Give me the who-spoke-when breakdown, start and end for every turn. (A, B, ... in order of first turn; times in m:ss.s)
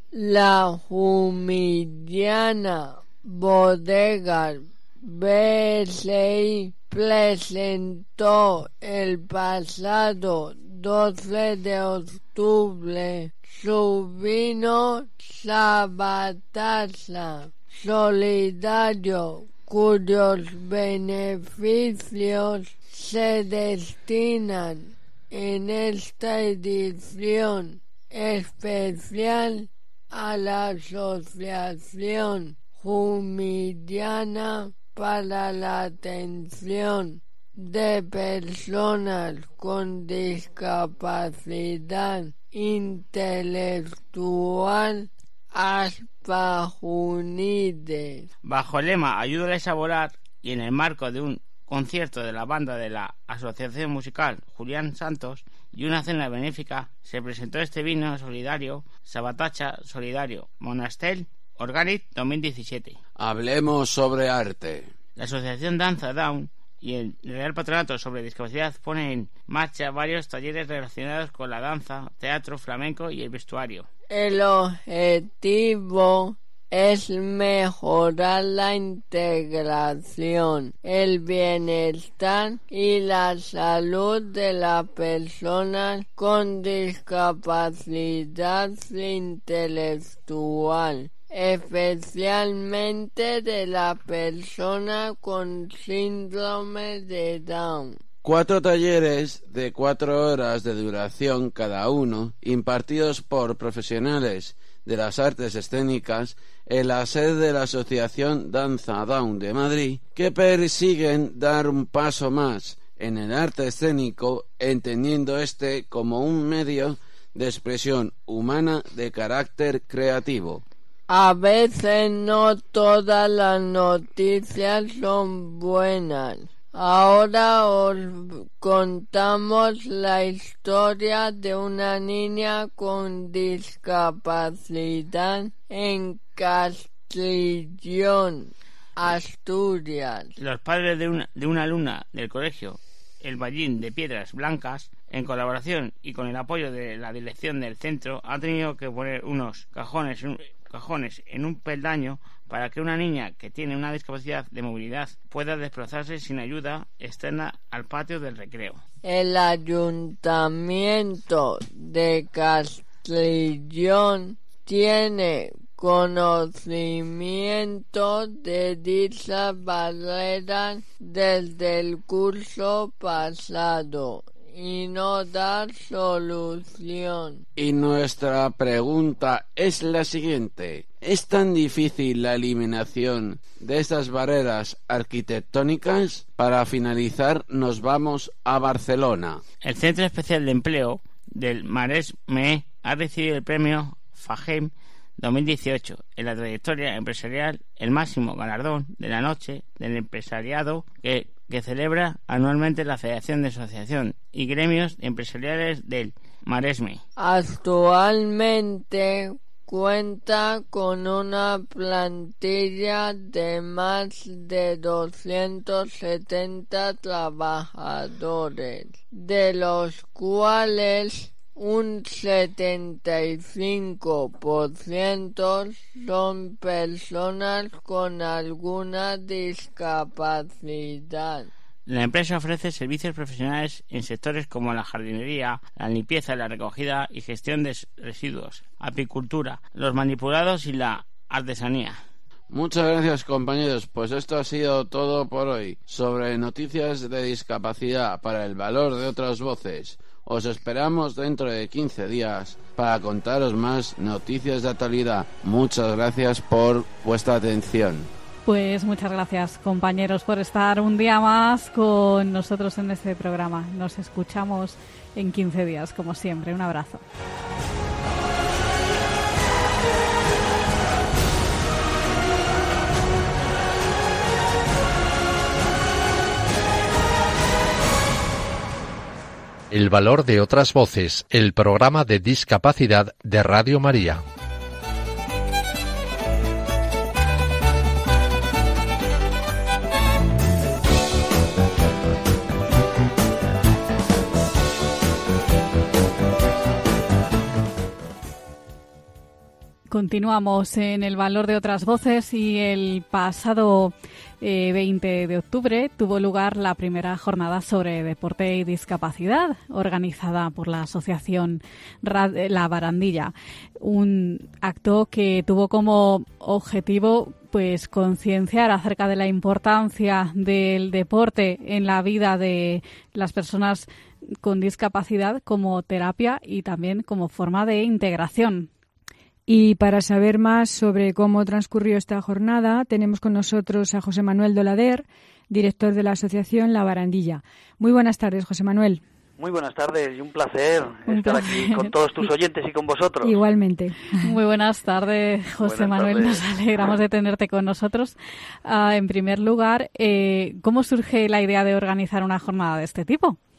0:00.1-0:48.3 A
0:48.4-1:03.0 B
1:03.2-1:04.9 C
1:05.2-1:13.9 B
1:14.1-1:38.0 A
1:38.2-2:00.6 C
2:01.1-2:20.3 A
2:20.4-2:38.8 B
2:39.0-2:57.4 A
2:57.6-3:09.4 C
3:09.6-3:27.0 B
3:27.2-3:51.5 A
3:51.9-4:02.0 B
4:02.5-4:18.1 C
4:18.4-4:27.0 D
4:39.7-4:44.2 E
4:59.9-5:23.9 D
5:24.4-5:28.7 D
5:29.5-5:39.0 F
5:39.4-5:43.4 G
5:41.1-5:41.9 D
5:43.2-5:44.3 F
5:44.2-5:53.4 D
5:45.6-5:46.4 G